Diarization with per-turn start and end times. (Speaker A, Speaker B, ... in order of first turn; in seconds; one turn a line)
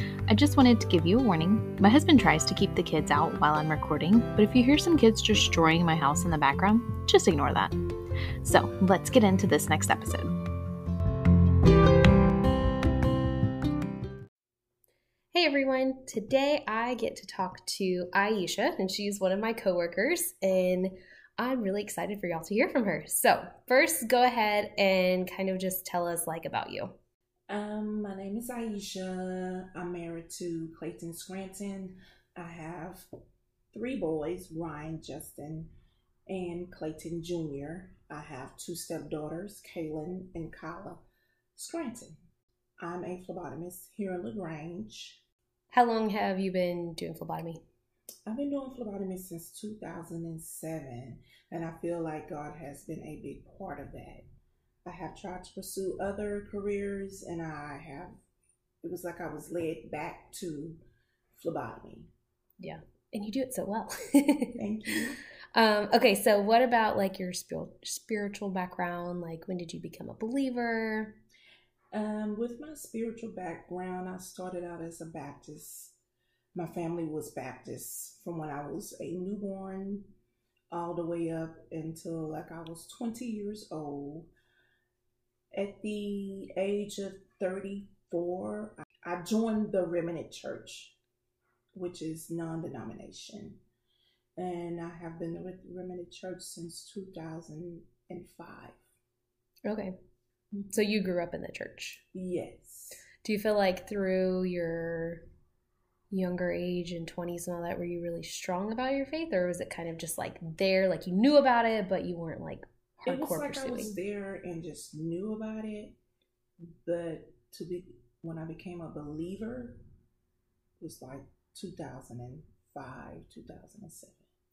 Speaker A: 0.3-7.7
Speaker A: 8.4-10.3
Speaker B: 15.3-26.9
Speaker C: 27.5-33.1
Speaker C: 33.7-35.7
Speaker C: 36.3-41.0
Speaker C: 41.5-42.2
Speaker C: 42.8-45.2
Speaker B: 45.7-47.6
Speaker C: 48.2-54.2
Speaker C: 54.8-58.2
Speaker C: 58.8-60.8
Speaker C: 61.3-62.1
Speaker B: 62.6-64.6
Speaker C: 64.6-65.2
Speaker B: 65.5-71.2
Speaker C: 71.9-76.0
Speaker C: 76.5-80.1
Speaker C: 80.7-84.3
Speaker C: 85.5-91.0
Speaker C: 91.7-93.6
Speaker C: 94.4-98.8
Speaker B: 99.7-99.9
Speaker C: 100.5-100.8
Speaker B: 100.7-102.0
Speaker C: 102.1-103.0
Speaker B: 103.2-105.2
Speaker B: 106.1-114.0
Speaker C: 113.0-116.0
Speaker C: 116.6-119.8
Speaker C: 120.8-124.2